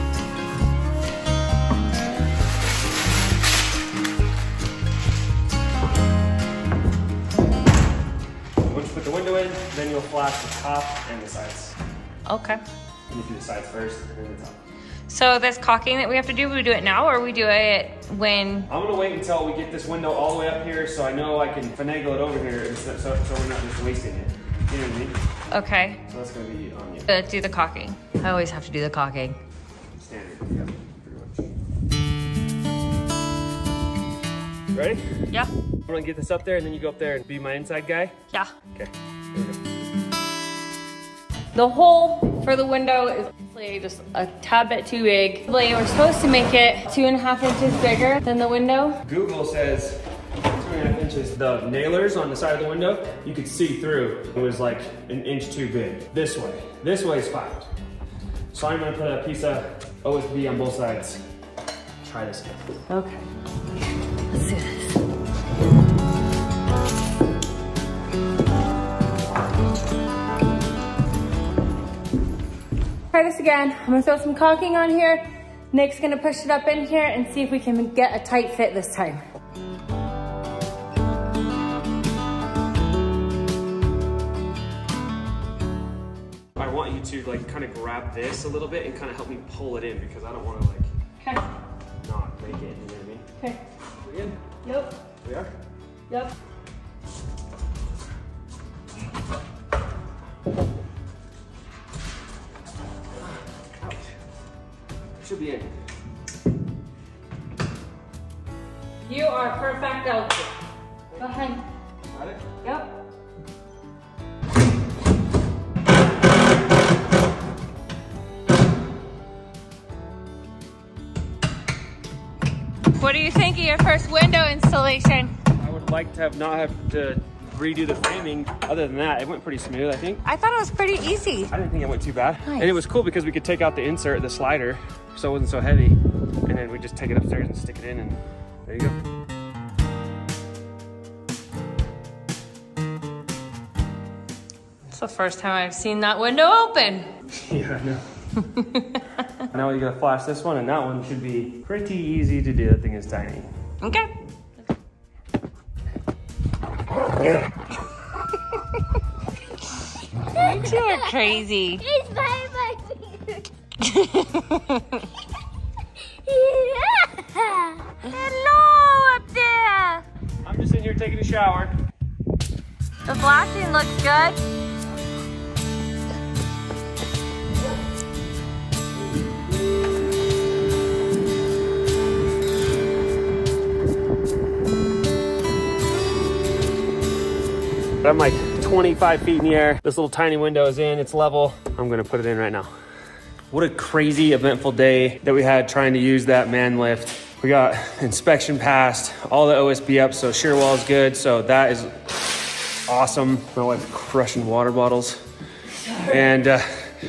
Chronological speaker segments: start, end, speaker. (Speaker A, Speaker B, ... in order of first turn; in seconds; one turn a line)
Speaker A: 8.6-11.8
Speaker B: 12.3-12.6
Speaker A: 13.1-14.6
Speaker B: 15.1-18.7
Speaker A: 18.7-25.2
Speaker B: 25.5-26.0
Speaker A: 26.1-27.1
Speaker B: 27.1-29.4
Speaker A: 30.0-31.5
Speaker A: 34.7-35.0
Speaker A: 35.9-38.1
Speaker A: 38.7-39.6
Speaker B: 41.5-49.0
Speaker A: 49.0-50.0
Speaker A: 50.5-57.7
Speaker A: 58.5-61.2
Speaker A: 62.0-62.7
Speaker B: 62.9-63.2
Speaker B: 64.3-64.9
Speaker B: 73.1-79.2
Speaker A: 86.5-90.9
Speaker A: 92.0-93.3
Speaker A: 94.0-94.4
Speaker B: 94.6-94.9
Speaker A: 95.2-95.5
Speaker A: 103.8-104.1
Speaker A: 105.2-105.7
Speaker B: 109.1-110.6
Speaker B: 111.2-111.6
Speaker A: 112.1-112.5
Speaker B: 112.6-112.9
Speaker B: 123.0-125.3
Speaker A: 125.5-130.2
Speaker B: 130.2-131.5
Speaker A: 131.5-139.0
Speaker B: 132.4-132.8
Speaker B: 144.9-147.1
Speaker A: 147.3-148.0
Speaker B: 148.4-149.0
Speaker A: 149.4-153.5
Speaker B: 153.8-154.1
Speaker B: 160.3-161.9
Speaker C: 160.4-163.4
Speaker B: 163.8-165.0
Speaker C: 166.3-167.1
Speaker B: 167.4-170.0
Speaker A: 170.4-171.7
Speaker B: 173.1-174.4
Speaker A: 188.0-192.7
Speaker A: 193.5-202.3
Speaker A: 202.9-205.2
Speaker B: 205.8-206.3
Speaker A: 206.1-206.7